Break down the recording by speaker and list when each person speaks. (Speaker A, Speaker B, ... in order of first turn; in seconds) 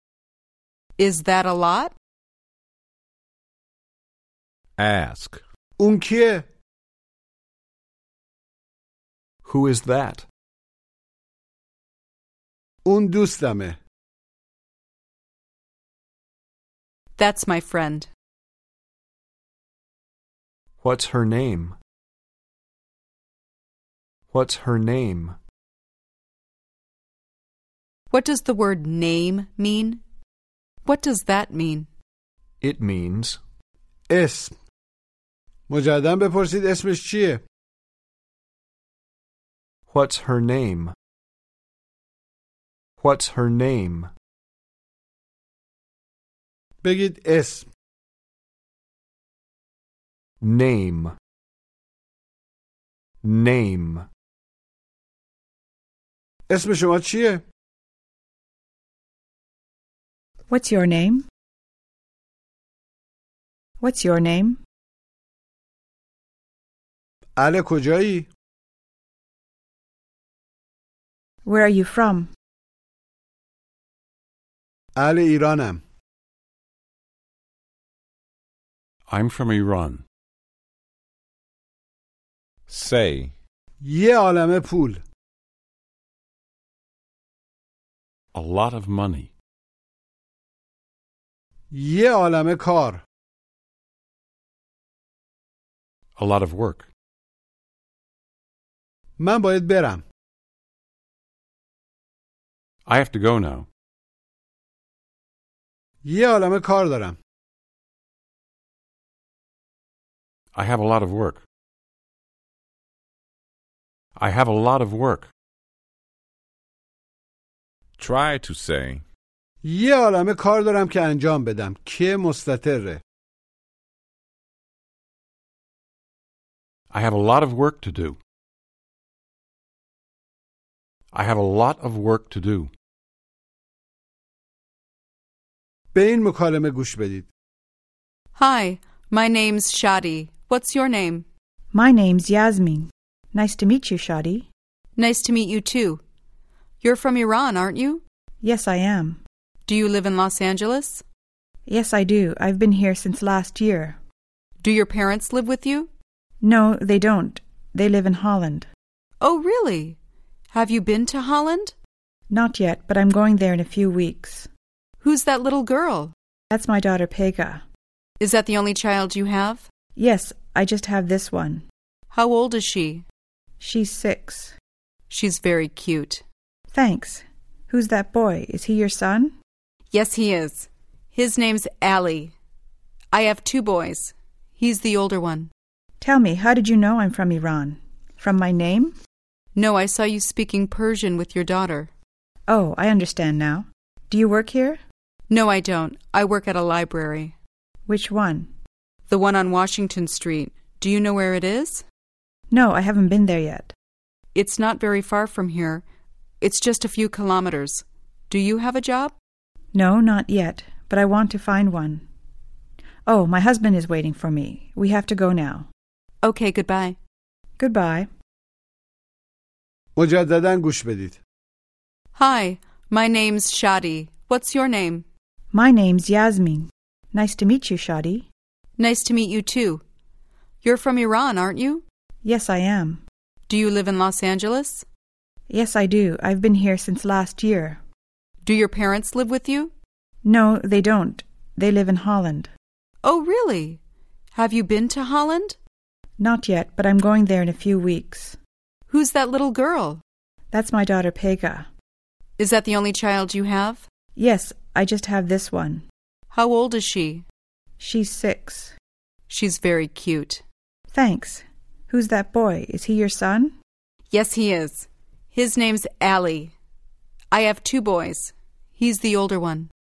Speaker A: 1.0-1.9, 17.2-18.1, 28.1-30.0, 30.8-31.9, 138.3-141.2, 144.9-146.0, 146.8-148.0, 149.7-151.0, 154.6-155.9, 159.2-160.0, 160.5-161.7, 165.0-166.1, 168.2-169.6, 172.1-173.0, 175.1-176.2, 179.9-182.3, 183.1-185.5, 189.5-191.9, 195.3-197.3, 199.1-201.8, 204.3-205.8, 206.4-209.1, 216.2-217.0, 222.1-225.0, 228.8-229.8, 230.6-231.8, 233.5-234.8, 238.4-239.7, 243.0-243.8, 244.3-245.6, 248.9-250.0, 252.4-253.8, 256.3-257.2, 259.3-260.4, 264.1-266.5, 267.3-269.7
Speaker B: 4.8-5.4, 82.7-83.3, 118.0-119.0
Speaker C: 5.8-6.5, 12.8-13.8, 34.1-34.5, 35.7-37.4, 46.8-47.7, 56.5-57.4, 67.3-68.3, 75.0-75.8, 83.8-85.0, 91.7-93.0, 99.2-100.0, 106.0-107.2, 119.6-123.0, 135.9-137.3, 219.9-221.2
Speaker D: 9.4-10.2, 20.8-21.8, 24.3-25.4, 32.6-33.4, 39.9-40.9, 43.0-44.1, 50.4-51.1, 53.2-54.0
Speaker E: 60.5-61.2, 63.8-64.6, 71.4-72.3, 141.7-144.5, 148.4-149.2, 151.7-154.0, 156.4-158.7, 162.3-164.5, 166.5-167.6, 169.9-171.6, 173.6-174.5, 176.7-179.3, 186.0-188.9, 192.5-194.8, 197.8-198.5, 202.5-203.7, 209.7-212.0, 213.1-215.7, 217.6-218.1, 225.5-228.3, 232.2-233.0, 235.5-237.8, 240.2-242.5, 246.2-248.4, 250.5-251.7, 254.2-255.8, 257.8-258.7, 260.9-263.5
Speaker F: 79.1-80.0, 88.3-89.3, 96.2-96.9, 102.8-103.7, 110.5-111.4, 114.2-115.3, 126.9-128.2, 131.1-132.7